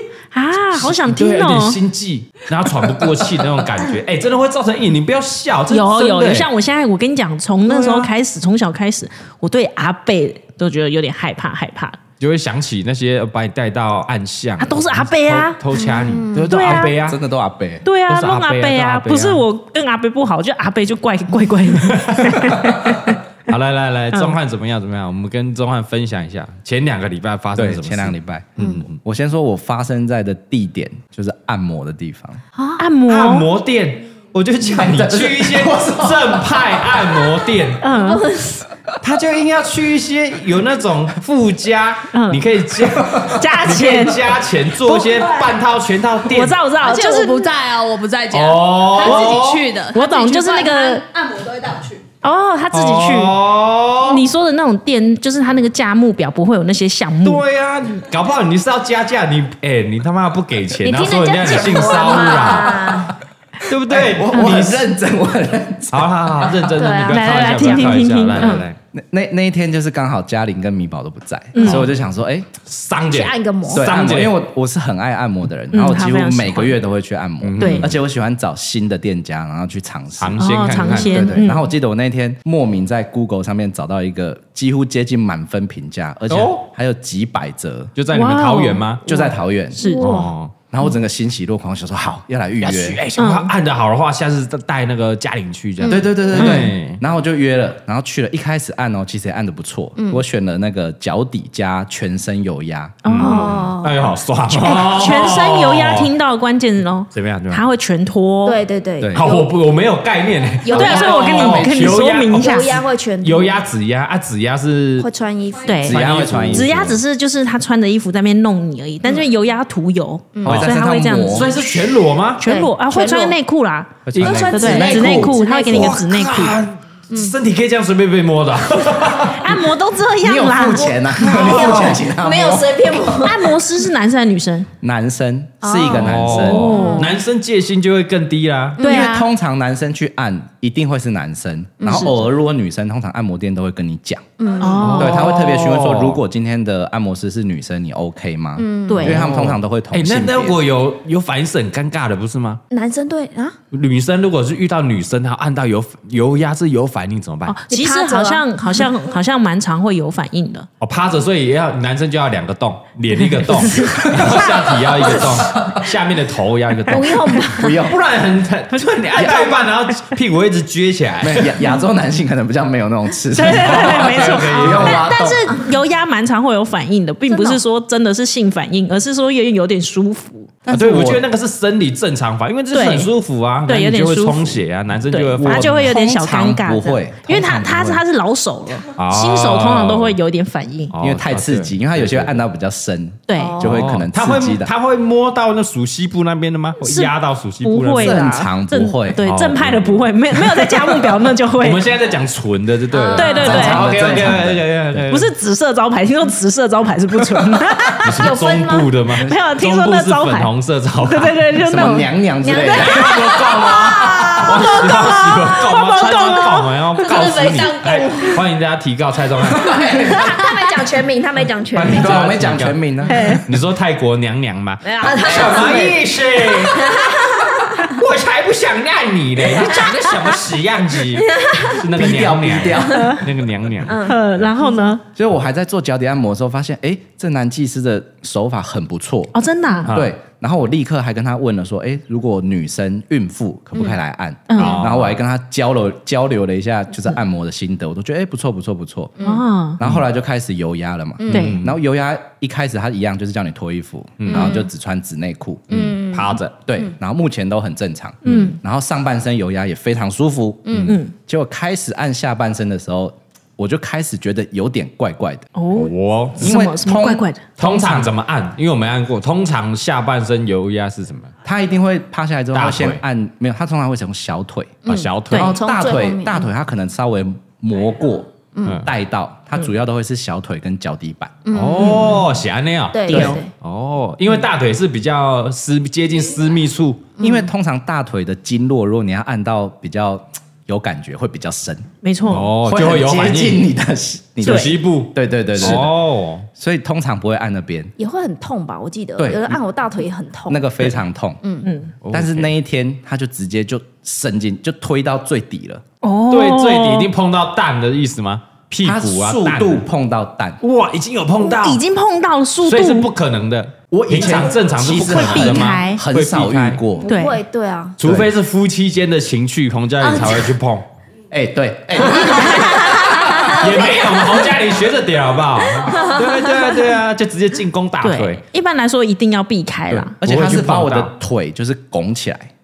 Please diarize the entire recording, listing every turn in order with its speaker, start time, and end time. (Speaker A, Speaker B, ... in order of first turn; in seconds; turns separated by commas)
Speaker A: 0.3-1.8, Speaker B: 0.7-6.5, Speaker A: 5.7-12.0, Speaker B: 7.7-8.1, Speaker B: 12.2-17.2, Speaker A: 14.6-15.8, Speaker C: 15.8-16.5, Speaker A: 16.5-17.0, Speaker D: 16.6-17.9, Speaker A: 17.9-23.2, Speaker B: 18.1-19.4, Speaker B: 21.8-22.8, Speaker B: 23.5-28.9, Speaker D: 27.6-32.4, Speaker C: 32.6-32.8, Speaker A: 32.8-33.5, Speaker B: 33.1-37.8, Speaker D: 34.6-37.4, Speaker A: 37.8-38.2, Speaker C: 37.9-38.7, Speaker B: 39.0-46.6, Speaker A: 42.1-42.5, Speaker D: 43.0-43.4, Speaker A: 43.2-44.4, Speaker A: 46.2-47.5, Speaker E: 46.8-52.0, Speaker B: 48.3-49.7, Speaker A: 49.9-51.0, Speaker A: 52.2-53.4, Speaker B: 52.7-54.2, Speaker A: 54.0-57.4, Speaker B: 57.2-63.1, Speaker C: 60.8-63.1, Speaker B: 63.6-64.8, Speaker D: 63.9-66.7, Speaker A: 64.3-64.6, Speaker B: 65.9-68.8, Speaker C: 66.7-67.9, Speaker A: 67.0-68.7, Speaker D: 68.9-72.5, Speaker A: 71.5-71.9, Speaker B: 71.6-71.9, Speaker B: 72.7-74.4, Speaker C: 73.1-73.9, Speaker D: 73.7-87.9, Speaker A: 75.7-76.8, Speaker B: 77.4-78.0, Speaker A: 77.6-77.9, Speaker B: 80.2-81.4, Speaker A: 80.4-81.7, Speaker B: 86.3-86.7, Speaker B: 88.0-89.0, Speaker A: 88.1-89.2, Speaker D: 89.1-89.8, Speaker C: 89.1-90.3, Speaker A: 89.8-90.3, Speaker B: 90.0-90.5, Speaker D: 90.7-93.0, Speaker B: 92.6-97.0, Speaker A: 93.2-93.5, Speaker C: 95.8-96.3, Speaker D: 95.9-103.0, Speaker A: 96.4-96.7, Speaker C: 100.0-100.2, Speaker A: 103.0-103.7, Speaker B: 103.0-106.1, Speaker C: 103.2-104.1, Speaker A: 104.5-108.6, Speaker B: 107.1-107.6, Speaker C: 108.4-109.5, Speaker D: 109.0-109.3, Speaker B: 109.2-115.1, Speaker C: 110.6-111.7, Speaker A: 110.7-112.8, Speaker C: 112.3-113.6, Speaker C: 115.0-115.9, Speaker A: 115.7-121.7, Speaker D: 115.8-117.0, Speaker B: 115.8-117.0, Speaker C: 120.3-120.7, Speaker D: 120.4-121.5, Speaker B: 121.3-122.4, Speaker A: 122.4-126.6, Speaker C: 122.4-123.4, Speaker D: 124.0-125.4, Speaker B: 124.1-124.7, Speaker C: 124.2-126.0, Speaker B: 125.7-129.7, Speaker A: 129.2-131.1, Speaker D: 130.2-132.9, Speaker B: 131.2-132.0, Speaker C: 131.2-133.6, Speaker A: 133.2-134.7, Speaker D: 134.8-136.9, Speaker C: 135.6-137.2, Speaker B: 135.9-138.8, Speaker A: 136.4-137.1, Speaker C: 138.8-139.1, Speaker A: 138.8-139.3, Speaker D: 138.8-144.2, Speaker C: 141.8-142.1, Speaker A: 141.9-142.2, Speaker C: 144.4-145.0, Speaker A: 144.6-145.3, Speaker B: 144.8-146.2, Speaker D: 144.9-150.6, Speaker C: 148.6-149.3, Speaker A: 148.9-149.2, Speaker B: 149.0-152.6, Speaker C: 152.7-153.6, Speaker B: 153.7-157.6, Speaker A: 157.5-160.7, Speaker C: 157.7-158.4, Speaker B: 160.8-171.6, Speaker A: 163.5-164.7, Speaker D: 163.8-165.8, Speaker C: 166.9-167.8, Speaker D: 167.5-168.0, Speaker A: 168.7-170.0, Speaker D: 169.2-169.6, Speaker D: 171.2-175.6, Speaker A: 173.3-180.5, Speaker B: 173.4-175.1, Speaker C: 177.3-177.6, Speaker D: 180.7-181.2, Speaker B: 180.7-185.9, Speaker A: 182.7-183.1, Speaker A: 183.7-190.9, Speaker D: 185.4-188.0, Speaker B: 189.0-190.2, Speaker B: 190.9-192.4, Speaker D: 191.0-194.7, Speaker A: 193.3-193.6, Speaker C: 193.4-193.8, Speaker B: 193.6-198.2, Speaker A: 196.8-201.9, Speaker D: 198.0-199.2, Speaker B: 199.2-200.8, Speaker B: 201.6-205.3, Speaker C: 202.9-203.7, Speaker A: 203.1-204.3, Speaker D: 203.4-205.1, Speaker A: 205.1-208.2, Speaker B: 208.0-211.4, Speaker C: 208.2-208.9, Speaker D: 209.1-209.4, Speaker A: 209.2-212.1, Speaker D: 211.6-214.9, Speaker C: 212.4-214.6, Speaker B: 212.7-219.8, Speaker A: 214.3-216.8, Speaker E: 217.1-218.4, Speaker C: 217.2-217.8, Speaker D: 219.5-220.4, Speaker C: 219.7-222.3, Speaker D: 221.7-223.4, Speaker B: 221.8-234.1, Speaker A: 223.1-223.4, Speaker C: 224.8-227.9, Speaker D: 225.4-225.7, Speaker C: 229.5-230.4, Speaker C: 231.1-231.8, Speaker D: 231.8-233.2, Speaker C: 232.7-233.2, Speaker A: 232.9-233.2, Speaker C: 233.8-234.8, Speaker A: 234.0-235.0, Speaker D: 235.2-249.2, Speaker A: 239.3-239.9, Speaker B: 239.9-240.2, Speaker A: 244.5-244.9, Speaker B: 244.6-245.2, Speaker A: 249.2-249.8, Speaker D: 249.8-255.9, Speaker C: 251.2-251.5, Speaker B: 251.3-251.8, Speaker A: 251.3-251.6, Speaker B: 254.2-254.6, Speaker C: 254.3-254.7, Speaker B: 255.7-256.6, Speaker C: 255.7-256.9, Speaker D: 256.6-265.5, Speaker A: 258.2-258.6, Speaker C: 260.7-261.0, Speaker A: 260.9-261.1, Speaker A: 265.6-267.4, Speaker B: 265.7-266.5, Speaker D: 266.4-268.1, Speaker B: 267.6-271.3, Speaker D: 271.4-281.9, Speaker B: 272.5-273.0, Speaker C: 274.9-276.5, Speaker B: 274.9-275.6, Speaker C: 278.6-278.8, Speaker B: 278.6-278.9, Speaker C: 281.4-282.2, Speaker B: 281.5-287.1, Speaker C: 282.9-283.5, Speaker D: 283.1-283.4, Speaker C: 287.2-287.5, Speaker D: 287.2-291.9, Speaker A: 292.0-292.5, Speaker B: 292.3-293.6, Speaker D: 292.6-296.0, Speaker B: 294.4-296.5, Speaker A: 294.4-294.8, Speaker D: 296.6-297.9, Speaker C: 298.0-300.7, Speaker D: 299.2-299.6, Speaker D: 300.5-301.4, Speaker C: 301.4-301.7, Speaker A: 301.6-301.9, Speaker B: 302.0-302.5, Speaker D: 302.1-305.8, Speaker A: 306.0-307.1, Speaker B: 306.3-309.8, Speaker D: 308.8-310.6, Speaker B: 310.6-311.8, Speaker A: 311.4-313.1, Speaker B: 312.6-316.8, Speaker D: 313.9-317.1, Speaker A: 314.9-316.0, Speaker C: 317.0-318.0, Speaker A: 317.1-317.4, Speaker B: 318.0-320.9, Speaker D: 318.0-318.3, Speaker A: 320.0-320.5, Speaker D: 321.3-323.6, Speaker C: 322.3-324.1, Speaker A: 322.4-323.2, Speaker B: 323.1-328.4, Speaker C: 325.9-326.5, Speaker A: 328.0-330.1, Speaker D: 329.9-332.5, Speaker B: 330.2-331.1